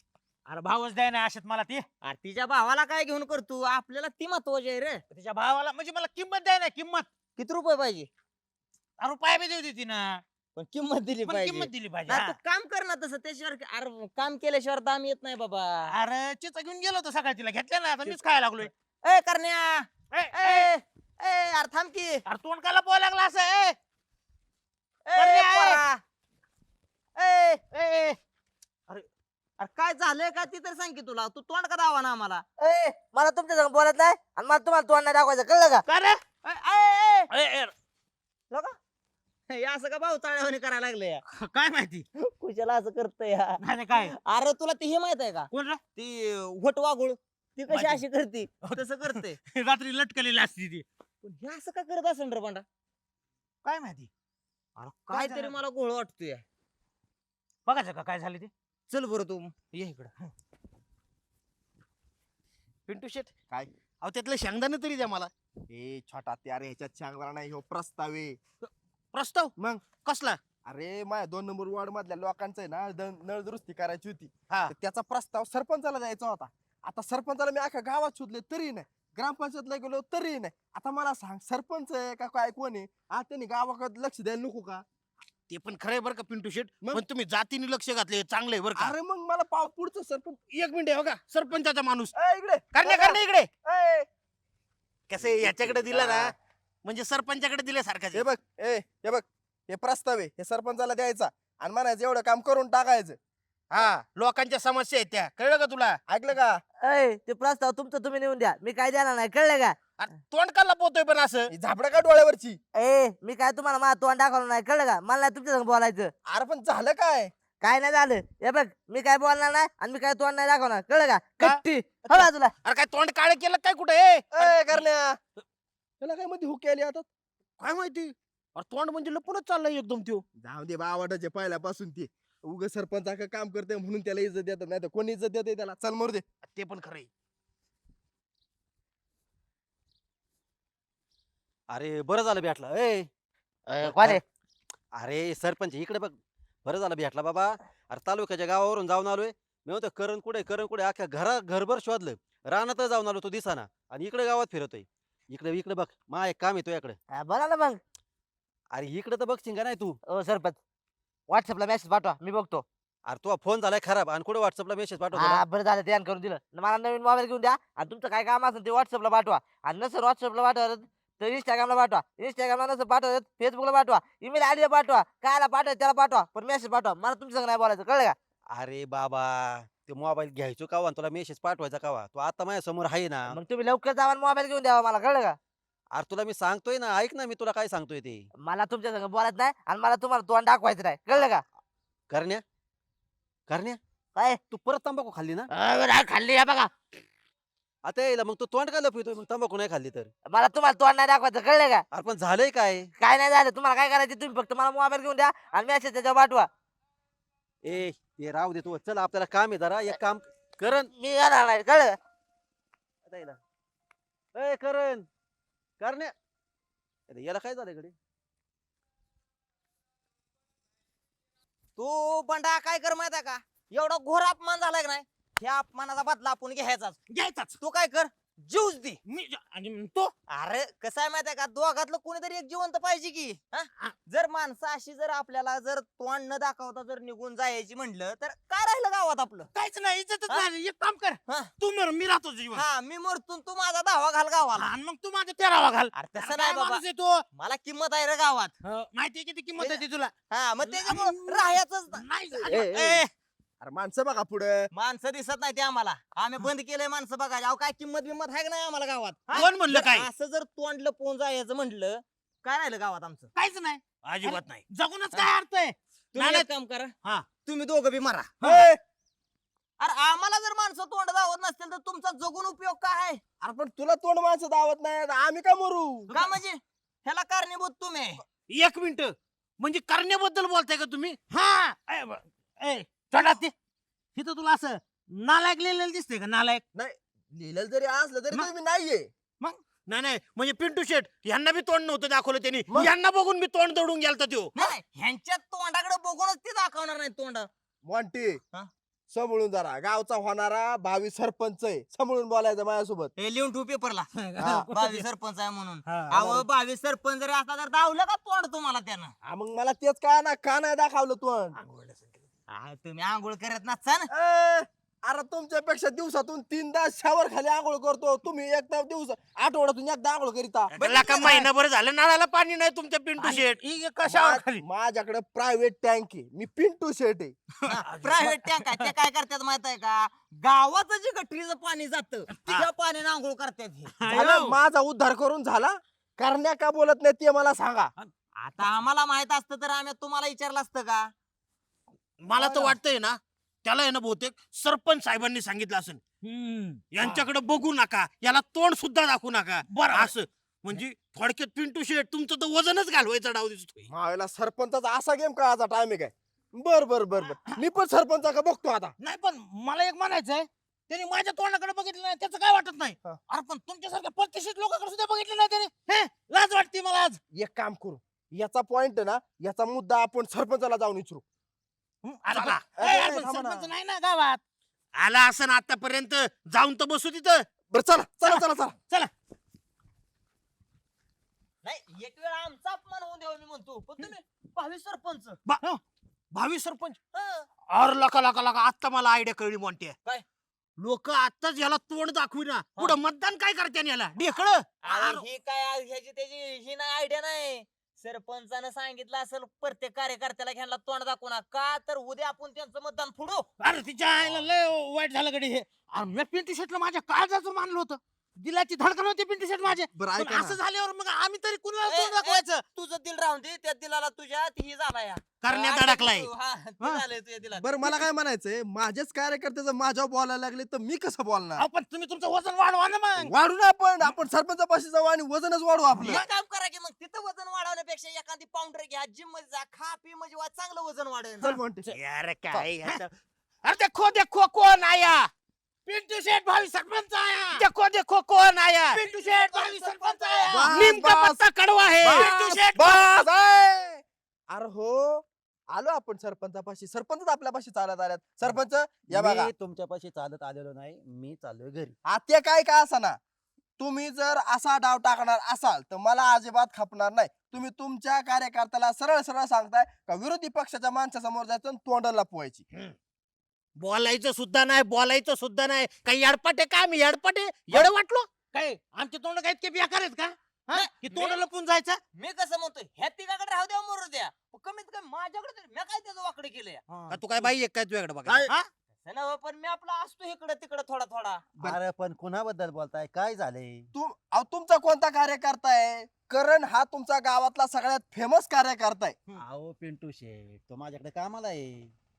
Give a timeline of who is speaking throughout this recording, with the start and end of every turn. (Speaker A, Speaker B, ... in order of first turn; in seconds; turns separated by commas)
Speaker A: 0.5-1.8, Speaker B: 2.0-5.0, Speaker A: 5.1-7.1, Speaker B: 7.4-8.1, Speaker A: 9.0-10.2, Speaker B: 10.6-15.9, Speaker A: 11.2-12.4, Speaker A: 15.9-18.7, Speaker B: 19.0-22.2, Speaker A: 20.1-20.7, Speaker A: 22.3-23.8, Speaker B: 25.1-26.0, Speaker A: 25.2-25.8, Speaker B: 27.2-27.7, Speaker A: 27.7-28.2, Speaker B: 29.6-32.4, Speaker C: 32.6-35.8, Speaker A: 35.9-36.2, Speaker B: 36.4-37.3, Speaker A: 37.3-37.7, Speaker B: 38.5-38.8, Speaker B: 39.5-41.2, Speaker A: 41.3-42.0, Speaker B: 42.2-49.4, Speaker A: 43.8-44.1, Speaker A: 45.5-45.8, Speaker A: 47.7-48.0, Speaker A: 48.7-50.9, Speaker B: 51.2-52.6, Speaker A: 53.6-54.1, Speaker B: 54.8-56.4, Speaker A: 55.1-55.5, Speaker A: 57.7-58.5, Speaker B: 58.9-59.5, Speaker A: 59.7-60.1, Speaker A: 62.9-63.3, Speaker A: 64.0-65.3, Speaker D: 65.7-68.4, Speaker A: 68.6-70.4, Speaker D: 69.6-69.8, Speaker D: 70.7-84.8, Speaker A: 85.5-89.0, Speaker D: 88.8-90.4, Speaker A: 90.5-92.1, Speaker D: 92.2-94.1, Speaker A: 92.7-93.5, Speaker A: 95.1-96.3, Speaker D: 95.4-96.3, Speaker A: 96.8-98.2, Speaker D: 98.1-103.2, Speaker A: 103.7-106.0, Speaker D: 106.1-106.6, Speaker C: 106.8-109.8, Speaker A: 110.0-111.5, Speaker D: 111.5-112.6, Speaker C: 112.8-116.1, Speaker D: 116.3-117.3, Speaker C: 117.6-122.5, Speaker A: 121.4-124.8, Speaker D: 124.3-125.2, Speaker D: 126.0-127.1, Speaker A: 127.6-130.2, Speaker D: 130.4-136.2, Speaker A: 136.4-137.1, Speaker E: 141.7-143.1, Speaker C: 143.7-144.2, Speaker E: 143.8-144.2, Speaker E: 144.9-157.0, Speaker C: 157.1-157.8, Speaker E: 158.7-160.0, Speaker C: 160.1-160.6, Speaker C: 161.3-162.7, Speaker E: 163.1-165.4, Speaker C: 165.2-178.2, Speaker E: 178.5-183.4, Speaker C: 183.4-185.4, Speaker E: 185.9-188.3, Speaker C: 188.4-191.4, Speaker E: 192.1-192.4, Speaker E: 193.5-193.8, Speaker E: 194.5-195.5, Speaker C: 195.6-196.7, Speaker E: 197.8-200.1, Speaker C: 200.3-201.8, Speaker E: 201.9-202.9, Speaker C: 203.0-206.5, Speaker E: 207.6-210.9, Speaker C: 210.9-212.0, Speaker E: 213.1-213.4, Speaker E: 214.3-215.1, Speaker E: 215.8-216.1, Speaker E: 217.1-217.9, Speaker B: 221.8-227.0, Speaker A: 227.1-227.6, Speaker B: 227.6-229.0, Speaker A: 229.1-230.1, Speaker B: 230.3-239.5, Speaker A: 239.5-242.6, Speaker B: 242.5-244.7, Speaker A: 244.6-247.2, Speaker B: 245.9-248.5, Speaker A: 248.6-250.1, Speaker B: 249.6-253.1, Speaker A: 250.6-252.8, Speaker C: 252.5-253.0, Speaker D: 253.6-254.7, Speaker B: 254.7-263.3, Speaker A: 259.3-260.1, Speaker A: 263.4-266.5, Speaker B: 266.1-266.9, Speaker B: 267.4-268.5, Speaker D: 268.4-268.8, Speaker B: 269.8-273.2, Speaker D: 273.4-276.2, Speaker B: 276.1-278.2, Speaker A: 278.5-283.5, Speaker A: 284.2-284.5, Speaker C: 285.2-286.2, Speaker D: 286.7-289.1, Speaker A: 289.9-294.7, Speaker B: 294.6-297.5, Speaker D: 297.9-298.4, Speaker D: 299.1-303.1, Speaker B: 303.2-309.1, Speaker D: 304.4-304.7, Speaker D: 306.1-306.5, Speaker D: 309.2-311.6, Speaker A: 311.6-312.2, Speaker B: 312.5-314.1, Speaker D: 314.1-321.5, Speaker A: 320.7-324.6, Speaker B: 320.8-321.4, Speaker D: 324.0-327.3, Speaker A: 327.7-328.9, Speaker B: 327.7-333.9, Speaker A: 332.4-332.7, Speaker A: 334.0-334.6, Speaker D: 334.1-337.9, Speaker B: 338.4-341.1, Speaker A: 342.2-353.9, Speaker D: 342.4-342.8, Speaker D: 353.9-358.9, Speaker A: 359.0-367.2, Speaker D: 367.3-371.2, Speaker A: 372.0-374.4, Speaker D: 372.3-373.7, Speaker A: 374.9-377.5, Speaker D: 377.7-378.8, Speaker A: 378.2-379.1, Speaker B: 381.6-385.4, Speaker A: 385.5-385.8, Speaker A: 386.3-387.0, Speaker B: 387.1-387.5, Speaker A: 387.7-390.0, Speaker A: 390.8-395.2, Speaker B: 394.8-403.5, Speaker A: 403.6-412.6, Speaker D: 409.9-410.6, Speaker B: 411.9-417.7, Speaker A: 415.4-416.3, Speaker D: 417.6-421.7, Speaker A: 421.6-423.3, Speaker D: 423.2-426.2, Speaker B: 426.0-431.6, Speaker D: 431.4-431.9, Speaker A: 431.9-433.1, Speaker A: 433.6-435.3, Speaker A: 435.9-443.3, Speaker B: 439.0-440.7, Speaker D: 440.5-441.4, Speaker D: 442.0-449.5, Speaker E: 449.1-452.0, Speaker D: 452.1-453.2, Speaker D: 453.8-462.6, Speaker A: 463.8-468.3, Speaker A: 468.8-472.0, Speaker B: 470.7-471.4, Speaker B: 472.2-476.9, Speaker A: 477.1-478.5, Speaker B: 479.0-481.4, Speaker E: 481.6-483.9, Speaker D: 483.9-489.2, Speaker E: 489.4-491.9